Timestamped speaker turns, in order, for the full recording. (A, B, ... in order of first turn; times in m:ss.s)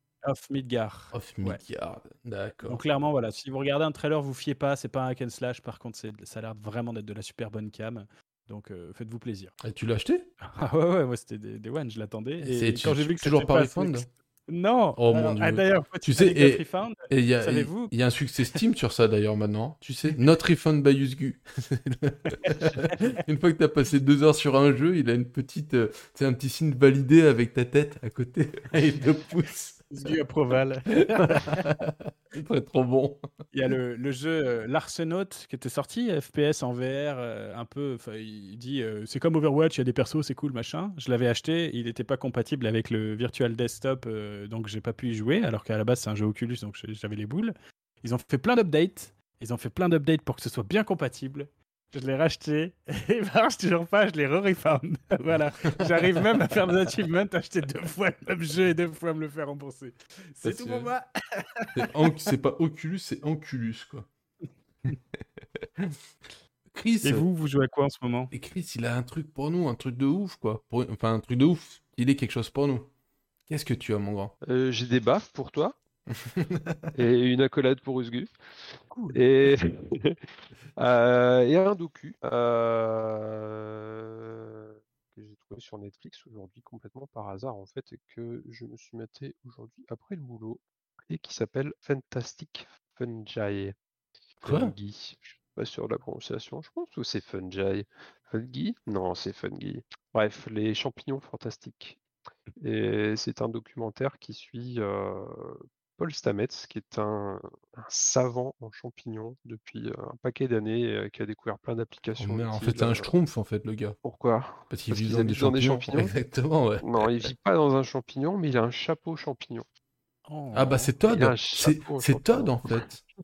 0:00.2-0:01.6 A
0:01.1-0:02.8 B
0:02.7-0:09.6 A
0:09.6-0:10.3 B
0:10.4-0:18.0 A
0:12.4-0:14.1 B
0:15.0-0:30.1 B
0:29.9-0:31.7 A
0:31.1-0:33.2 B
0:33.5-1:02.2 A
1:00.4-1:00.9 B
1:01.7-1:04.1 B
1:06.7-1:07.3 B
1:07.0-1:08.3 A
1:08.3-1:12.9 B
1:13.5-1:14.3 B
1:14.4-1:15.8 C
1:16.1-1:16.9 B
1:16.9-1:18.3 C
1:18.9-1:19.2 A
1:19.1-1:20.2 C
1:20.8-1:33.8 C
1:34.4-1:42.0 C
1:34.4-1:34.7 B
1:42.6-1:53.1 C
1:52.2-1:54.0 B
1:54.0-1:56.1 C
1:54.7-1:57.3 B
1:56.8-1:59.6 C
2:00.3-2:00.9 A
2:00.5-2:03.0 B
2:01.1-2:02.9 C